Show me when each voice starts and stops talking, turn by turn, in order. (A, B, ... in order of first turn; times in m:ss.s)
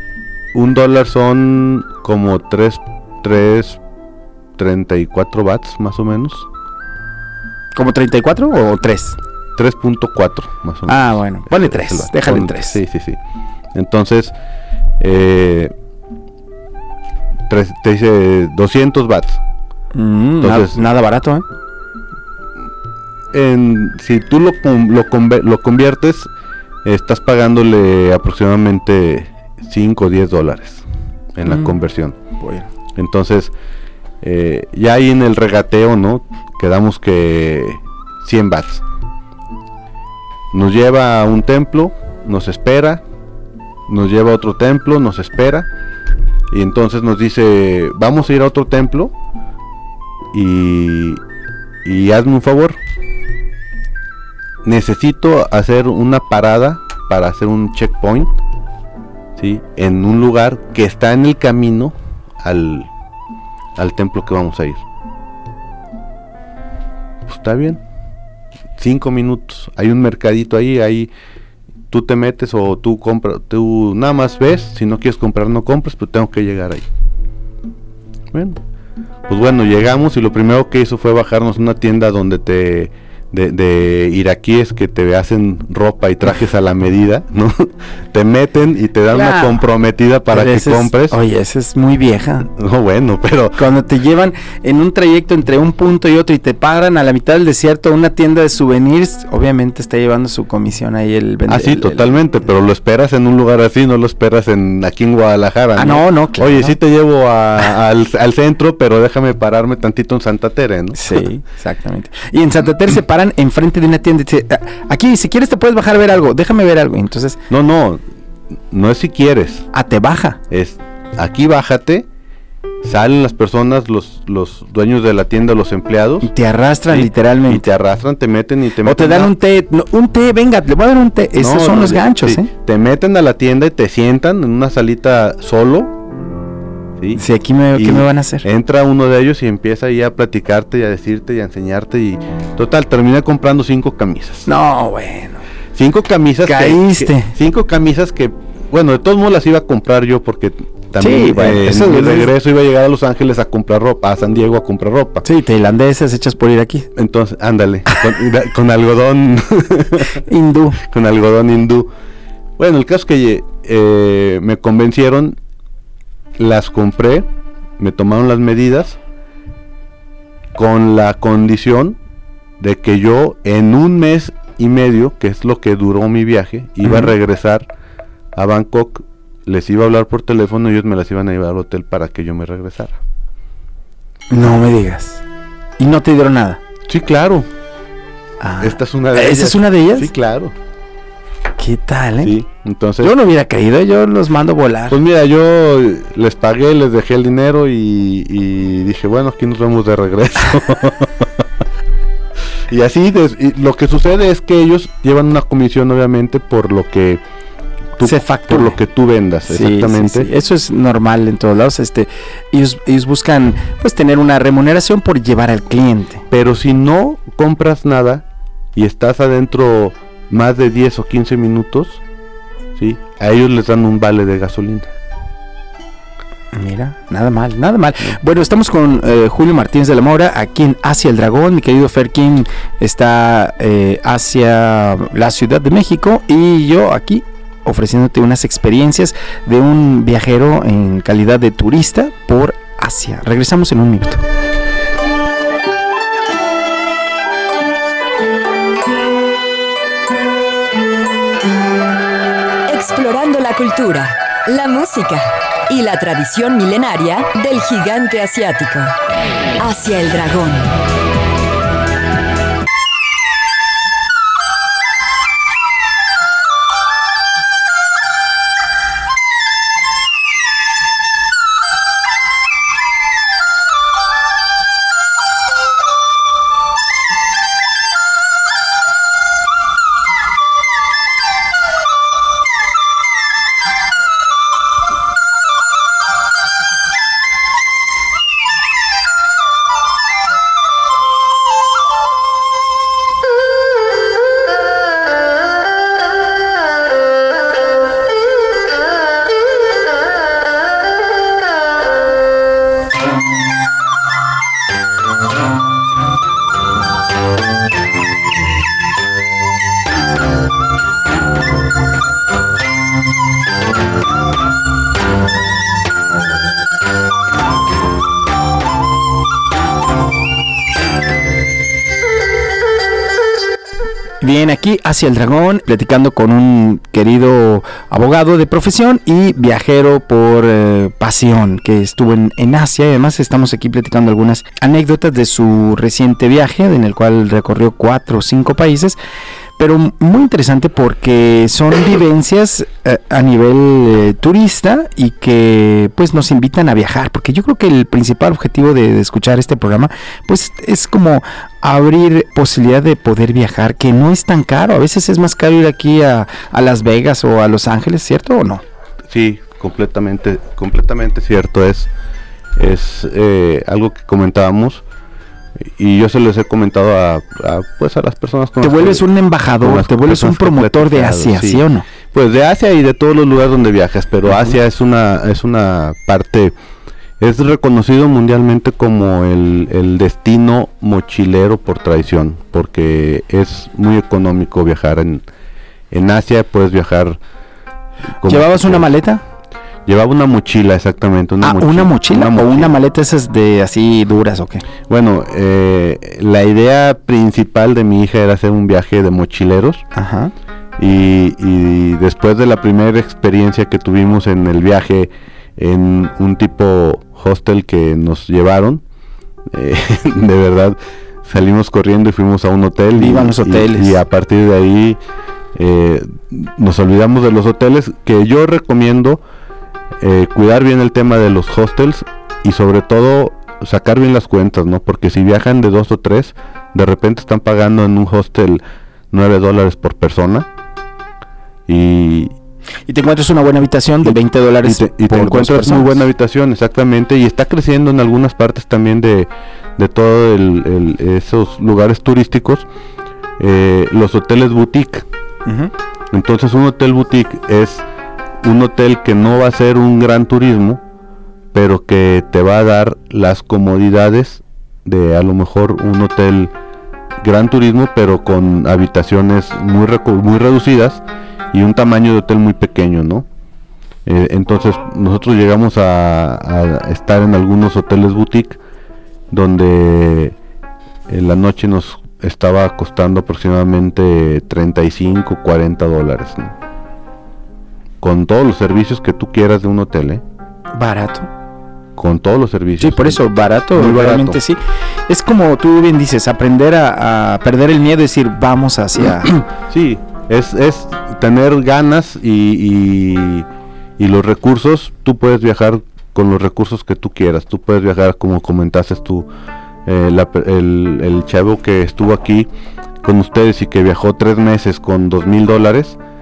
0:00.5-0:03.8 A
0:04.6-0:06.5 A
0:07.7-0:09.2 B
0:09.6-0:13.2 A
0:10.9-0:12.8 B
0:13.7-0:14.3 A
0:15.0-0:15.7 A
0:17.5-0:19.4 A
0:19.9-0:21.4 B
0:20.4-0:20.8 A
0:23.3-0:26.3 A
0:26.8-0:32.2 A
0:31.4-0:31.7 B
0:32.4-0:32.7 B
0:32.9-0:33.5 A
0:34.2-0:38.8 A
0:40.5-0:43.0 A
0:43.9-0:45.7 A
0:46.5-0:49.1 A
0:50.3-0:51.2 A
0:51.8-0:52.8 A
0:54.6-0:58.3 A
0:59.4-1:02.9 A
1:03.8-1:04.8 A
1:07.2-1:07.8 A
1:08.8-1:11.1 A
1:11.9-1:16.8 A
1:18.3-1:18.6 A
1:19.3-1:31.2 A
1:29.1-1:29.6 B
1:30.3-1:32.5 B
1:32.5-1:33.6 A
1:33.6-1:42.2 B
1:41.5-1:51.2 A
1:45.8-1:46.8 B
1:50.9-1:57.4 B
1:57.5-1:58.0 A
1:58.7-1:59.7 A
1:59.7-2:00.4 B
2:00.5-2:02.1 A
2:02.8-2:06.3 A
2:06.2-2:07.7 B
2:06.9-2:09.3 A
2:08.8-2:12.5 B
2:11.4-2:16.0 A
2:17.2-2:18.4 B
2:17.7-2:24.5 A
2:24.4-2:25.4 B
2:25.7-2:35.2 A
2:26.4-2:27.3 B
2:31.0-2:32.3 B
2:35.2-2:36.9 B
2:36.9-2:40.2 A
2:40.1-2:40.8 B
2:40.8-2:41.9 A
2:42.6-2:45.4 A
2:46.4-2:47.2 A
2:47.8-2:49.0 A
2:50.5-2:52.0 A
2:52.6-2:57.6 A
2:56.8-2:57.1 B
2:58.3-3:03.0 A
3:04.3-3:05.2 B
3:05.8-3:06.6 B
3:06.9-3:07.5 A
3:08.4-3:10.1 B
3:08.6-3:10.5 A
3:11.6-3:12.3 B
3:12.2-3:13.1 A
3:13.0-3:15.0 B
3:14.9-3:21.4 A
3:22.7-3:27.2 A
3:28.0-3:30.3 A
3:28.0-3:28.8 B
3:29.5-3:36.2 B
3:36.3-3:42.0 A
3:42.8-3:44.9 A
3:46.5-4:04.2 B
4:12.7-4:18.9 C
4:19.6-4:20.8 C
5:24.2-5:39.0 B
5:39.6-5:58.6 B
5:59.1-6:01.9 A
6:02.6-6:04.8 A
6:05.6-6:09.0 A
6:08.6-6:11.9 B
6:09.6-6:16.5 A
6:17.2-6:25.2 A
6:25.9-6:27.2 A
6:28.2-6:28.9 A
6:28.2-6:29.2 B
6:29.8-6:32.7 A
6:31.4-6:34.6 B
6:34.9-6:39.8 A
6:39.9-6:40.3 B
6:40.8-6:48.8 A
6:49.5-6:55.0 A
6:52.9-6:54.0 B
6:55.5-6:59.2 A
7:00.0-7:10.5 A
7:11.7-7:12.3 A
7:12.9-7:16.0 B
7:14.0-7:22.7 A
7:23.4-7:25.0 A
7:25.4-7:25.7 B
7:26.1-7:27.8 A
7:28.4-7:30.8 A
7:31.5-7:36.5 A
7:37.2-7:43.3 A
7:44.0-7:48.6 A
7:49.3-7:50.3 A
7:51.1-7:56.5 A
7:58.0-8:00.2 A
8:00.7-8:01.3 B
8:02.0-8:03.2 A
8:02.8-8:09.4 B
8:03.7-8:04.4 A
8:09.7-8:13.5 A
8:14.0-8:19.3 A
8:19.8-8:22.5 A
8:23.0-8:26.0 A